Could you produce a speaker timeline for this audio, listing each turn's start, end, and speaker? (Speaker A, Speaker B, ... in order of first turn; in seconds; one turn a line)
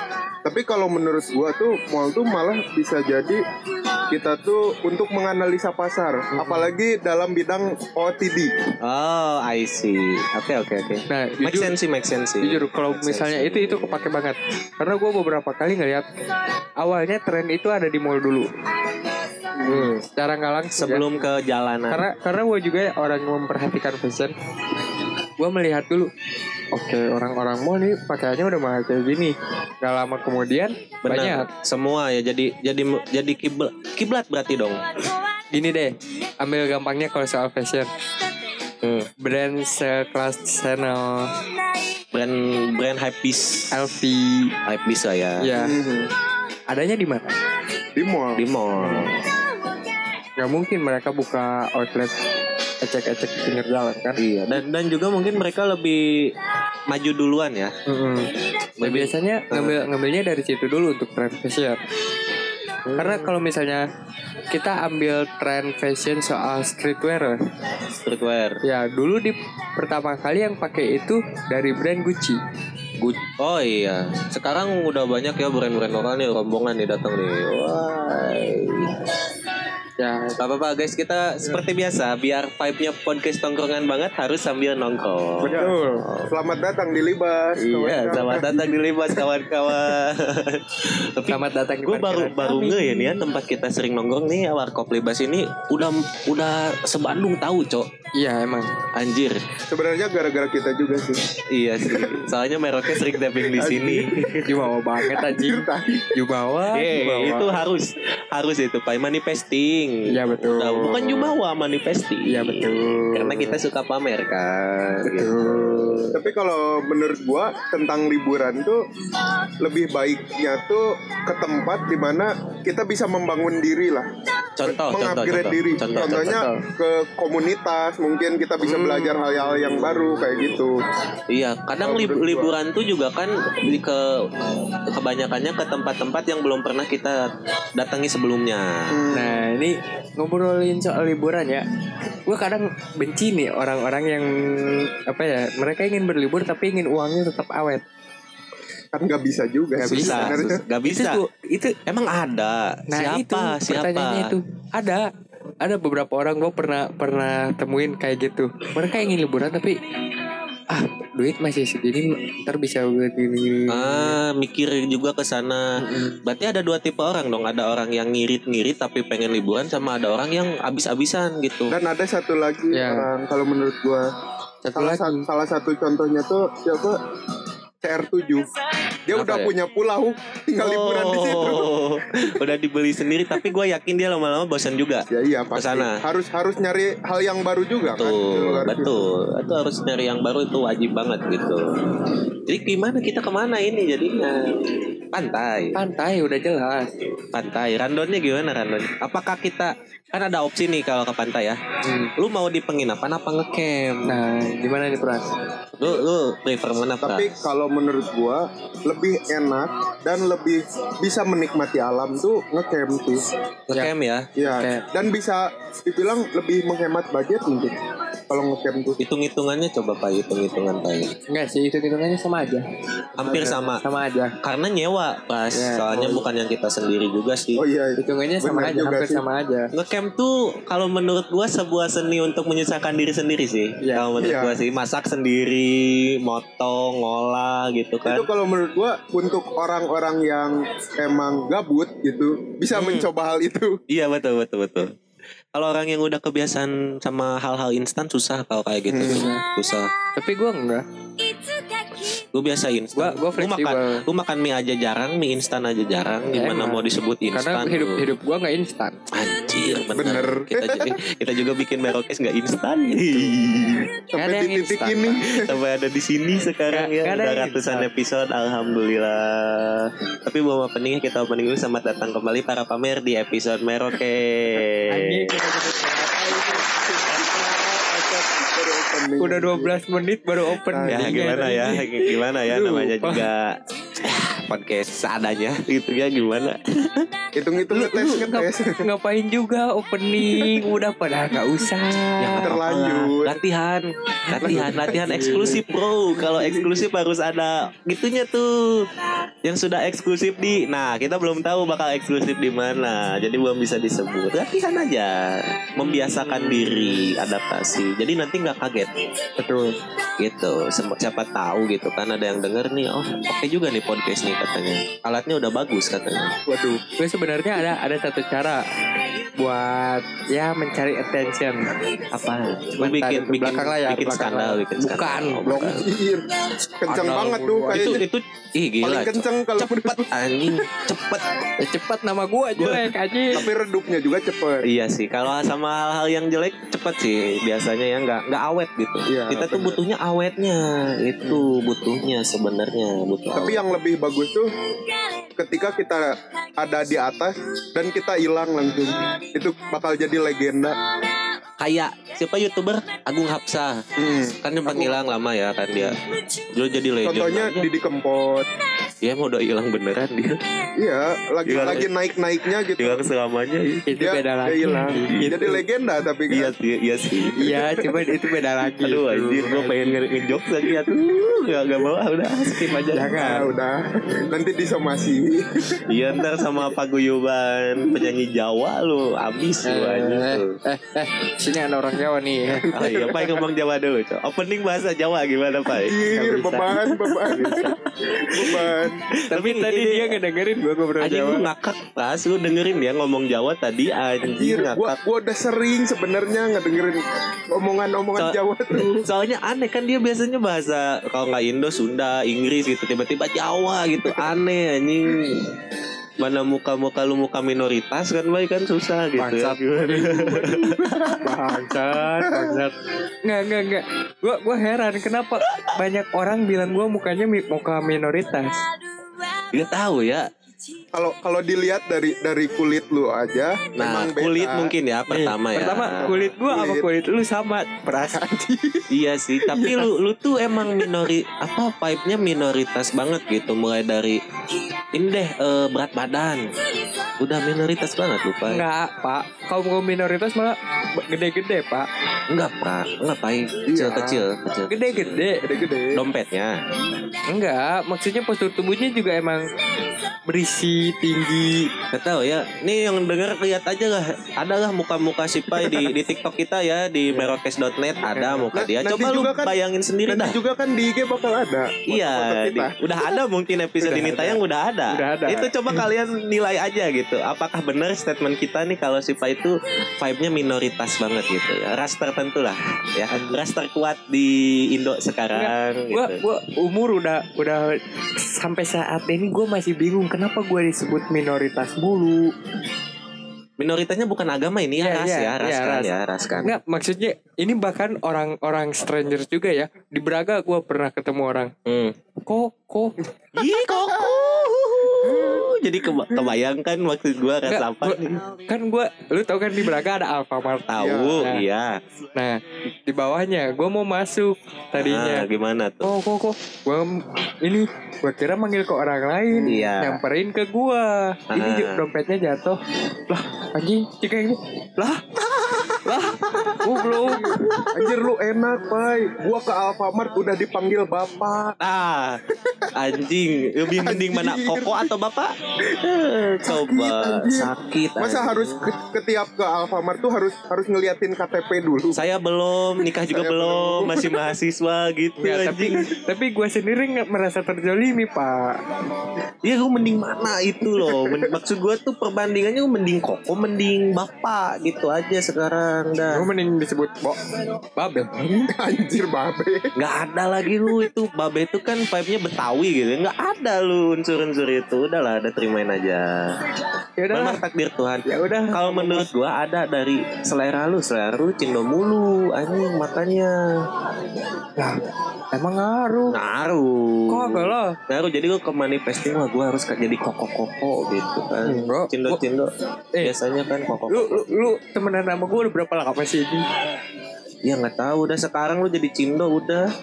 Speaker A: 0.4-3.4
Speaker A: 4.1-8.5
Speaker B: 6.3-6.7
Speaker C: 8.8-14.0
Speaker B: 11.1-11.7
Speaker B: 12.4-16.0
Speaker B: 16.8-18.5
Speaker B: 19.7-21.3
Speaker C: 20.8-22.0
Speaker B: 21.9-24.3
Speaker B: 25.4-26.1
Speaker B: 26.7-31.5
Speaker C: 31.1-34.8
Speaker B: 35.5-37.9
Speaker C: 38.8-39.1
Speaker B: 39.2-41.3
Speaker C: 42.1-43.7
Speaker B: 43.7-44.5
Speaker C: 44.6-45.5
Speaker B: 45.4-45.7
Speaker A: 45.5-46.1
Speaker B: 46.7-47.2
Speaker A: 48.0-48.4
Speaker C: 48.4-49.1
Speaker B: 48.8-49.1
Speaker B: 50.4-52.1
Speaker B: 52.8-54.2
Speaker C: 54.2-56.3
Speaker C: 56.9-57.7
Speaker B: 57.9-58.3
Speaker C: 58.8-59.8
Speaker B: 58.8-61.8
Speaker C: 62.9-63.3
Speaker B: 63.0-63.8
Speaker B: 64.5-67.4
Speaker C: 68.0-68.6
Speaker B: 68.6-72.4
Speaker C: 73.0-78.9
Speaker B: 80.0-80.4
Speaker C: 80.4-86.3
Speaker B: 85.4-86.0
Speaker A: 85.5-85.7
Speaker A: 86.3-88.6
Speaker B: 87.8-88.5
Speaker C: 87.8-97.9
Speaker B: 91.3-93.2
Speaker B: 98.2-98.7
Speaker C: 98.9-99.4
Speaker A: 99.7-101.2
Speaker C: 101.5-104.5
Speaker A: 101.8-102.3
Speaker A: 103.4-104.1
Speaker B: 104.5-107.5
Speaker A: 105.0-106.1
Speaker C: 106.7-116.1
Speaker B: 110.1-111.3
Speaker B: 112.3-113.5
Speaker B: 115.0-116.1
Speaker A: 116.1-118.8
Speaker A: 119.6-124.1
Speaker C: 124.6-126.5
Speaker A: 124.6-130.8
Speaker B: 126.3-126.6
Speaker C: 128.6-130.6
Speaker C: 131.3-134.0
Speaker A: 131.8-132.5
Speaker C: 134.9-138.9
Speaker A: 138.9-139.4
Speaker B: 139.1-141.6
Speaker B: 142.2-147.8
Speaker A: 148.9-150.6
Speaker B: 149.9-151.7
Speaker C: 149.9-151.2
Speaker C: 151.9-154.3
Speaker B: 152.9-155.1
Speaker B: 155.6-159.8
Speaker B: 160.7-164.2
Speaker C: 163.7-171.7
Speaker B: 165.8-166.2
Speaker A: 171.7-174.0
Speaker B: 172.7-173.1
Speaker B: 174.6-175.3
Speaker A: 174.7-177.0
Speaker A: 177.8-178.5
Speaker A: 179.1-181.7
Speaker C: 179.1-179.5
Speaker C: 180.6-186.0
Speaker A: 185.1-189.0
Speaker C: 187.9-191.6
Speaker C: 192.5-194.4
Speaker C: 195.1-195.8
Speaker B: 195.7-196.9
Speaker C: 197.3-201.6
Speaker B: 201.8-202.1
Speaker C: 202.2-204.1
Speaker B: 204.1-205.3
Speaker C: 205.8-207.3
Speaker A: 207.0-213.2
Speaker C: 213.7-214.3
Speaker A: 214.3-217.8
Speaker B: 214.4-214.8
Speaker A: 218.3-219.0
Speaker C: 219.0-221.1
Speaker B: 221.3-222.6
Speaker C: 223.2-223.8
Speaker B: 223.2-224.3
Speaker C: 224.4-227.6
Speaker B: 225.5-226.2
Speaker A: 227.6-229.2
Speaker B: 228.0-229.7
Speaker C: 229.7-238.3
Speaker B: 233.8-234.1
Speaker A: 234.2-234.6
Speaker A: 238.1-243.8
Speaker C: 242.7-243.1
Speaker C: 243.9-244.9
Speaker C: 245.5-249.9
Speaker A: 248.9-249.3
Speaker B: 249.0-249.4
Speaker B: 250.2-250.8
Speaker C: 252.1-258.0
Speaker B: 252.9-254.0
Speaker B: 256.3-259.0
Speaker C: 259.1-263.9
Speaker A: 259.9-260.9
Speaker A: 264.1-265.5
Speaker B: 264.1-265.2
Speaker C: 265.3-275.4
Speaker B: 266.7-267.9
Speaker B: 274.9-277.2
Speaker A: 276.2-279.8
Speaker B: 279.2-283.3
Speaker A: 280.6-281.3
Speaker C: 280.9-287.1
Speaker A: 287.4-288.8
Speaker C: 287.7-288.4
Speaker B: 288.8-292.5
Speaker C: 292.2-298.9
Speaker A: 292.4-293.4
Speaker B: 294.3-295.6
Speaker A: 294.4-296.7
Speaker C: 299.4-308.9
Speaker B: 305.8-307.1
Speaker B: 309.4-309.8
Speaker C: 310.2-316.4
Speaker A: 316.5-316.8
Speaker B: 317.0-318.6
Speaker B: 319.4-321.6
Speaker C: 322.1-325.9
Speaker B: 322.8-325.5
Speaker A: 325.5-326.3
Speaker A: 326.8-328.0
Speaker B: 326.9-327.9
Speaker C: 327.7-331.2
Speaker A: 328.8-330.1
Speaker B: 331.6-333.4
Speaker C: 332.6-332.8
Speaker A: 333.3-334.6
Speaker C: 334.6-343.6
Speaker A: 339.1-339.8
Speaker A: 343.3-344.5
Speaker A: 345.4-350.8
Speaker C: 351.6-353.8
Speaker A: 354.0-355.0
Speaker C: 354.4-356.0
Speaker C: 356.5-357.7
Speaker A: 357.0-358.5
Speaker C: 359.0-360.4
Speaker A: 360.8-363.0
Speaker C: 361.4-361.9
Speaker C: 362.8-363.8
Speaker B: 363.9-365.5
Speaker A: 364.0-366.5
Speaker C: 365.1-365.5
Speaker C: 366.3-367.5
Speaker B: 367.4-370.0
Speaker A: 367.4-367.8
Speaker C: 368.8-373.4
Speaker B: 372.4-373.5
Speaker A: 373.1-375.8
Speaker C: 375.9-380.6
Speaker B: 379.6-382.7
Speaker A: 382.5-383.4
Speaker C: 382.7-387.8
Speaker A: 385.7-387.7
Speaker A: 388.3-389.0
Speaker C: 388.4-388.7
Speaker C: 389.2-390.2
Speaker B: 389.3-391.4
Speaker C: 391.0-394.9
Speaker A: 394.2-397.0
Speaker A: 397.5-399.0
Speaker C: 398.2-405.4
Speaker C: 406.2-411.1
Speaker B: 409.2-410.1
Speaker A: 409.9-411.2
Speaker B: 411.2-412.7
Speaker A: 412.2-412.6
Speaker B: 413.2-418.5
Speaker C: 419.5-420.3
Speaker A: 420.9-424.7
Speaker C: 423.8-426.3
Speaker B: 425.1-428.2
Speaker A: 426.0-426.9
Speaker A: 428.0-428.9
Speaker C: 428.9-434.2
Speaker A: 429.5-429.9
Speaker C: 434.9-436.4
Speaker C: 437.2-438.6
Speaker B: 438.5-441.9
Speaker C: 442.3-445.4
Speaker A: 443.7-444.2
Speaker B: 444.7-445.4
Speaker A: 445.4-446.0
Speaker C: 445.9-446.6
Speaker B: 447.3-449.5
Speaker B: 450.3-451.7
Speaker C: 451.9-460.4
Speaker B: 458.1-458.5
Speaker A: 458.5-459.5
Speaker A: 460.1-462.8
Speaker C: 461.9-476.2
Speaker B: 463.8-465.5
Speaker B: 473.1-473.4
Speaker B: 475.3-482.3
Speaker C: 483.6-486.5
Speaker B: 484.8-485.9
Speaker B: 486.4-491.5
Speaker C: 491.6-491.9
Speaker B: 492.2-492.9
Speaker C: 493.3-498.2
Speaker A: 493.6-494.4
Speaker A: 495.0-495.5
Speaker B: 497.5-501.4
Speaker C: 500.7-501.7
Speaker A: 500.8-501.2
Speaker B: 502.1-505.3
Speaker C: 504.8-505.9
Speaker B: 505.8-512.6
Speaker A: 509.3-509.7
Speaker C: 509.4-510.0
Speaker C: 511.3-511.8
Speaker B: 513.1-515.0
Speaker B: 515.8-517.7
Speaker A: 516.3-521.5
Speaker C: 521.6-522.2
Speaker C: 522.7-528.6
Speaker A: 523.7-524.9
Speaker A: 526.4-532.0
Speaker C: 531.9-535.8
Speaker A: 533.0-534.2
Speaker B: 535.2-538.6
Speaker C: 539.4-546.2
Speaker A: 540.7-541.3
Speaker B: 546.1-547.2
Speaker B: 547.8-548.5
Speaker A: 548.5-549.7
Speaker C: 549.8-556.4
Speaker B: 557.0-557.4
Speaker C: 557.1-563.3
Speaker B: 558.0-559.1
Speaker B: 565.3-566.1
Speaker C: 566.1-572.5
Speaker B: 567.1-567.7
Speaker B: 571.4-572.2
Speaker C: 573.0-574.3
Speaker B: 573.9-576.4
Speaker C: 577.4-579.6